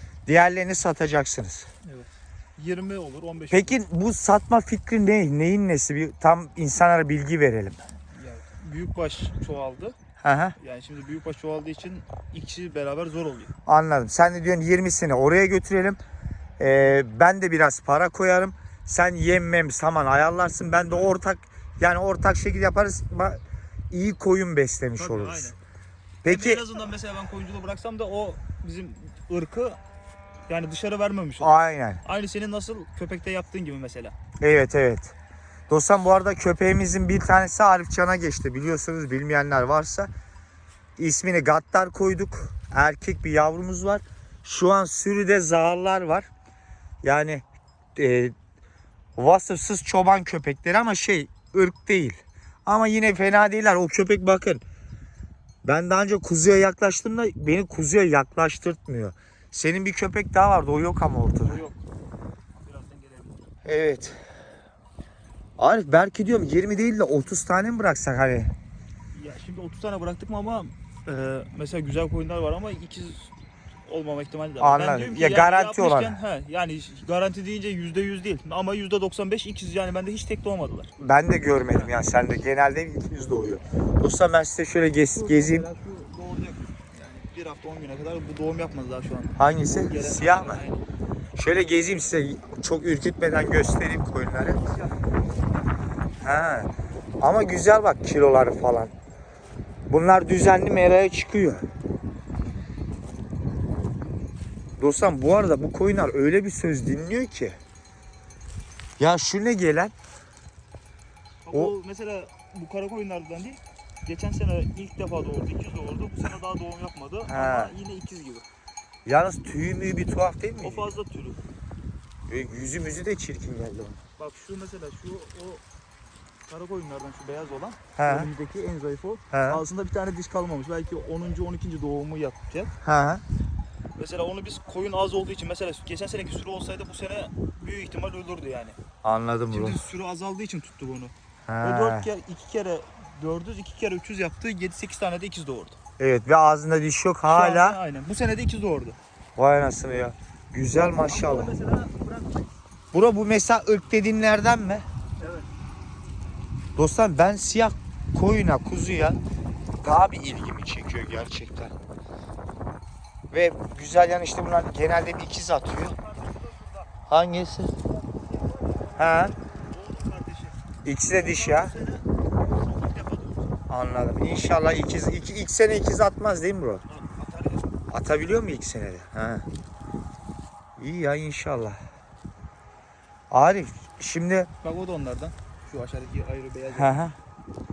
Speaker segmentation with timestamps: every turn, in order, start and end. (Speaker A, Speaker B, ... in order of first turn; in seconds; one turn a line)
Speaker A: 0.3-1.7
Speaker B: 1.8-3.8
Speaker A: 3.5-7.8
Speaker B: 8.1-10.0
Speaker A: 10.2-10.6
Speaker B: 10.6-13.5
Speaker A: 13.7-16.0
Speaker A: 16.6-25.5
Speaker B: 24.9-25.6
Speaker A: 26.2-26.6
Speaker B: 26.2-29.8
Speaker B: 30.5-34.1
Speaker A: 31.4-32.0
Speaker A: 34.4-35.1
Speaker A: 35.7-40.1
Speaker A: 41.0-46.3
Speaker A: 47.0-47.4
Speaker A: 48.0-48.4
Speaker A: 49.2-54.6
Speaker A: 55.6-61.6
Speaker B: 61.4-61.8
Speaker B: 62.6-63.5
Speaker A: 63.6-64.2
Speaker A: 65.6-68.5
Speaker B: 69.1-73.3
Speaker B: 73.9-80.9
Speaker A: 74.6-76.2
Speaker A: 81.0-85.7
Speaker B: 81.6-81.9
Speaker B: 85.1-90.8
Speaker A: 89.4-90.6
Speaker A: 91.4-94.6
Speaker A: 96.2-98.9
Speaker A: 99.9-101.7
Speaker A: 104.8-107.6
Speaker A: 109.0-109.9
Speaker B: 111.4-118.5
Speaker A: 117.3-117.7
Speaker A: 119.1-120.9
Speaker B: 120.6-121.4
Speaker A: 122.3-124.0
Speaker B: 124.2-125.6
Speaker B: 126.5-132.7
Speaker A: 128.0-128.3
Speaker A: 129.3-129.6
Speaker A: 132.8-133.2
Speaker B: 134.0-138.8
Speaker A: 139.0-139.8
Speaker B: 139.5-145.8
Speaker A: 141.5-142.1
Speaker A: 146.0-147.8
Speaker B: 147.2-149.0
Speaker A: 149.4-151.5
Speaker B: 150.8-152.5
Speaker A: 152.9-154.9
Speaker B: 155.2-155.5
Speaker A: 156.8-159.2
Speaker A: 159.8-161.8
Speaker A: 163.3-166.0
Speaker B: 165.8-166.9
Speaker A: 167.1-167.7
Speaker B: 167.8-169.0
Speaker A: 169.0-169.3
Speaker B: 169.7-170.6
Speaker A: 170.8-171.7
Speaker B: 171.1-173.6
Speaker A: 173.7-176.8
Speaker B: 176.9-177.7
Speaker A: 177.9-179.5
Speaker A: 180.8-181.8
Speaker A: 183.3-184.5
Speaker B: 184.6-187.1
Speaker A: 186.7-187.2